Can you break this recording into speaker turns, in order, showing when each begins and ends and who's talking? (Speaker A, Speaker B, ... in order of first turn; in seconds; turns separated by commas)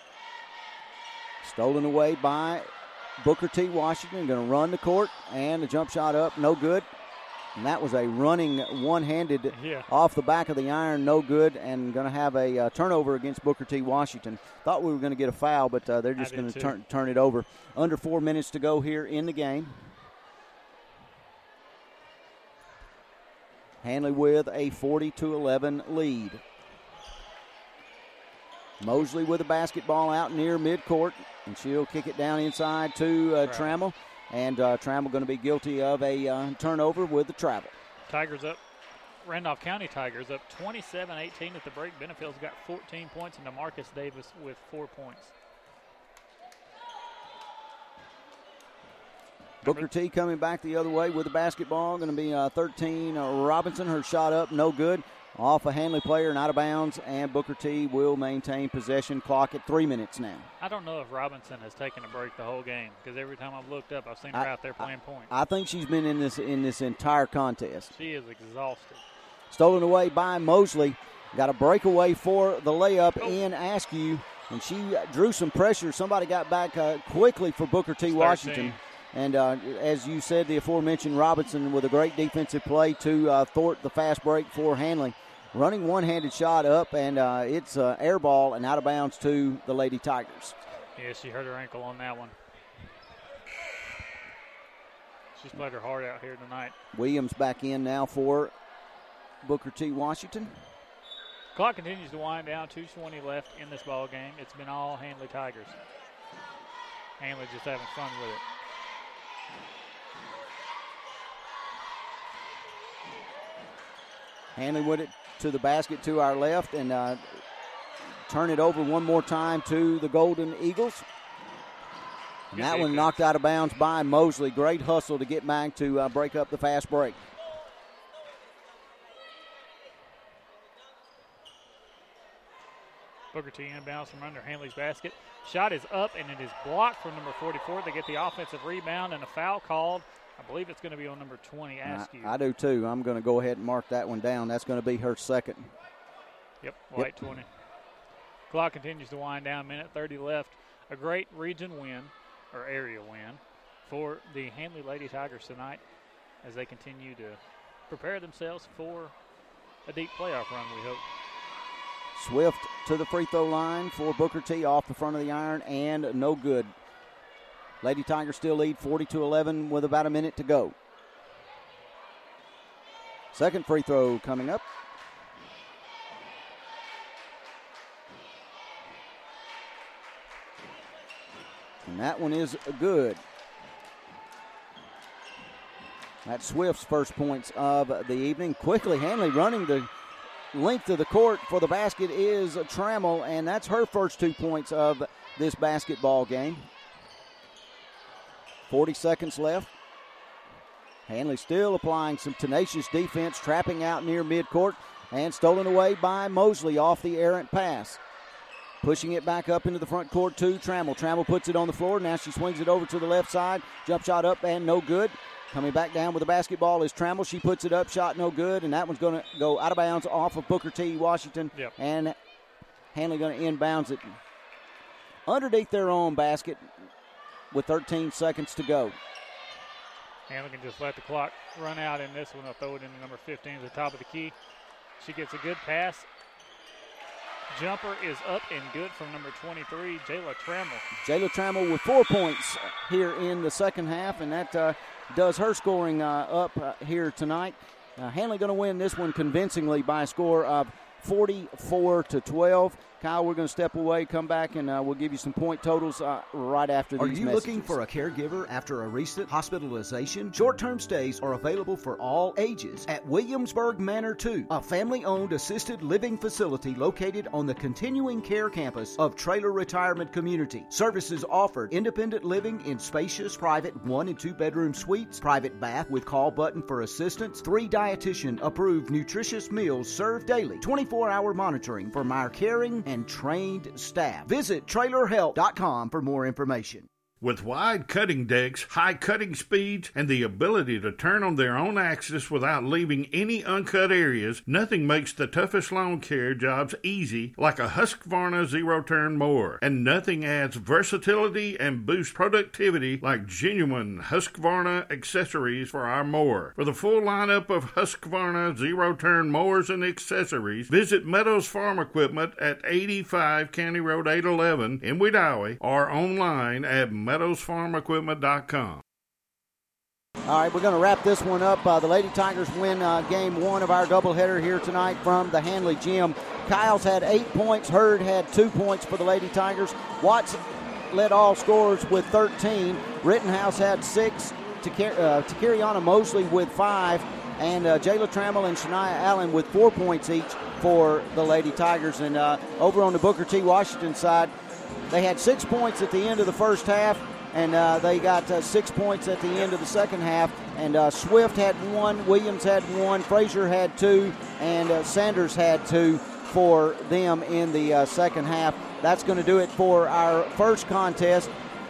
Speaker A: 1.4-6.9, Speaker A: 7.5-19.9, Speaker B: 9.5-9.9, Speaker B: 16.2-16.8, Speaker A: 23.8-26.4, Speaker A: 28.8-37.7, Speaker B: 33.4-33.7, Speaker B: 38.1-38.6, Speaker B: 39.2-45.3, Speaker A: 49.6-60.5, Speaker B: 60.6-65.3, Speaker A: 64.3-67.9, Speaker B: 67.9-69.0, Speaker A: 69.5-90.6, Speaker B: 78.1-78.8, Speaker B: 91.0-92.3, Speaker B: 95.3-96.8, Speaker A: 96.9-98.5, Speaker A: 99.4-100.6, Speaker B: 101.5-105.8, Speaker B: 107.2-108.4, Speaker A: 114.6-117.4, Speaker A: 118.3-121.0, Speaker B: 122.5-123.2, Speaker A: 122.5-127.2, Speaker B: 133.3-142.4, Speaker A: 141.8-145.7, Speaker B: 146.6-147.5, Speaker A: 147.0-147.3, Speaker B: 148.5-155.8, Speaker B: 156.4-159.1, Speaker B: 159.9-161.0, Speaker A: 162.2-166.7, Speaker A: 167.8-170.8, Speaker A: 173.3-174.6, Speaker A: 181.8-183.2, Speaker A: 186.2-189.9, Speaker A: 190.5-196.7, Speaker A: 198.7-199.7, Speaker A: 201.1-208.0, Speaker A: 208.8-222.2, Speaker A: 222.9-224.2, Speaker A: 225.3-226.7, Speaker A: 227.5-229.0, Speaker B: 230.3-234.3, Speaker B: 235.0-236.1, Speaker B: 237.5-240.8, Speaker A: 241.0-257.8, Speaker C: 257.0-286.9, Speaker D: 287.2-318.8, Speaker A: 320.3-344.3, Speaker A: 344.9-361.3